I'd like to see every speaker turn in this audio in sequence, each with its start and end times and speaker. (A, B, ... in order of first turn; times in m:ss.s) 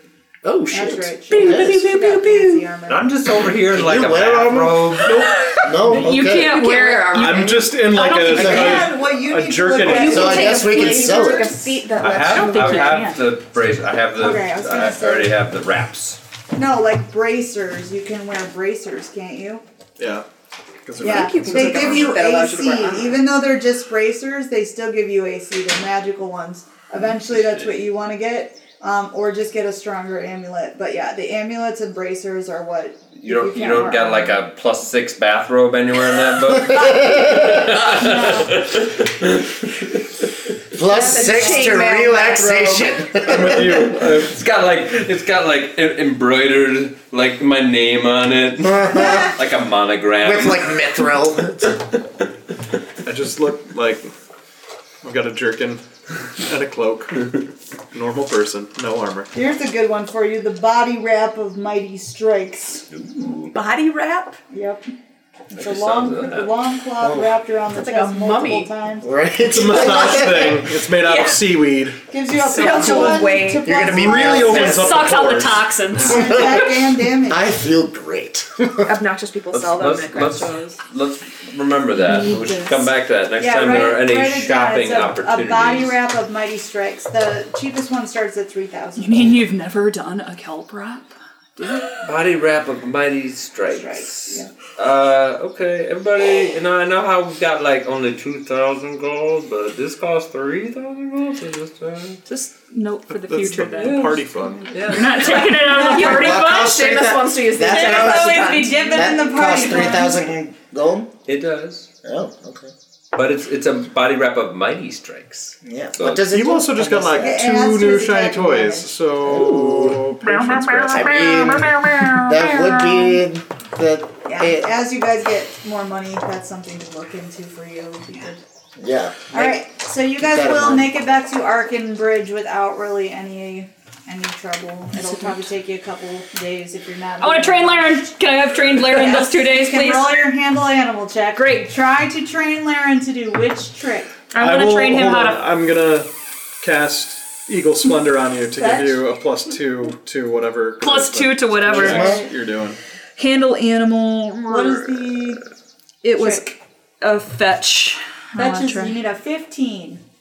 0:00.4-0:01.8 A
0:00.7-0:03.2 B
0:01.3-0:02.6 C
0:02.9-0:05.2 D
0:03.7-0:06.6 A
0:05.8-0:08.6 E
0:06.3-0:08.7 C
0:07.1-0:10.4 F
0:08.0-0:11.8 B
0:08.2-0:08.9 A
0:09.7-0:13.0 C
0:09.9-0:11.6 A
0:12.0-0:16.2 D
0:12.1-0:13.2 E
0:14.1-0:15.3 B
0:16.5-0:19.6 B
0:20.0-0:20.2 F
0:20.8-0:22.0 F
0:21.0-0:34.4 B
0:21.0-0:23.2 C
0:27.4-0:27.7 D
0:33.2-0:40.0 D
0:36.7-0:37.6 A
0:37.2-0:38.7 B
0:40.7-0:43.9 A
0:40.8-0:43.3 C
0:41.3-0:41.6 B
0:43.2-0:44.3 F
0:43.6-0:51.8 D
0:48.6-0:49.4 A
0:50.2-0:51.8 A
0:53.0-0:54.1 F
0:55.0-0:55.8 F
0:56.4-0:59.3 F
0:59.3-1:02.9 B
1:02.9-1:03.5 D
1:03.5-1:04.4 C
1:04.5-1:04.8 B
1:05.5-1:09.1 B
1:05.5-1:06.6 D
1:07.0-1:07.4 A
1:07.7-1:08.7 C
1:09.0-1:10.7 A
1:09.4-1:12.0 F
1:11.0-1:11.5 C
1:12.1-1:14.5 B
1:12.3-1:14.7 C
1:13.6-1:15.2 A
1:13.8-1:15.7 F
1:14.5-1:16.4 E
1:16.0-1:17.5 B
1:16.1-1:16.7 A
1:17.3-1:18.9 A
1:18.8-1:20.8 C
1:19.5-1:25.9 D
1:22.1-1:22.7 E
1:23.4-1:29.4 B
1:29.0-1:32.0 E
1:32.0-1:42.2 D
1:33.7-1:34.5 B
1:42.2-1:44.2 E
1:43.1-1:45.4 F
1:43.9-1:44.2 C
1:44.7-1:45.4 D
1:44.9-1:46.8 E
1:45.3-1:49.1 C
1:45.6-1:46.3 B
1:45.8-1:51.1 A
1:47.7-1:50.2 B
1:51.2-1:51.9 D
1:52.0-1:52.7 A
1:53.1-1:56.3 D
1:55.6-1:57.4 A
1:56.2-2:01.3 F
1:57.2-1:58.9 B
1:59.2-2:00.2 A
2:00.3-2:03.1 E
2:00.9-2:04.7 A
2:04.2-2:08.4 B
2:08.8-2:10.9 A
2:09.3-2:18.1 B
2:15.0-2:15.3 E
2:17.2-2:20.3 E
2:18.8-2:24.2 B
2:21.3-2:21.7 E
2:24.3-2:25.4 E
2:24.4-2:26.1 F
2:26.6-2:32.8 F
2:28.6-2:29.0 B
2:30.8-2:32.2 E
2:31.8-2:32.2 B
2:33.2-2:35.1 E
2:34.5-2:35.4 B
2:36.0-2:39.0 E
2:36.2-2:36.4 B
2:38.4-2:40.0 B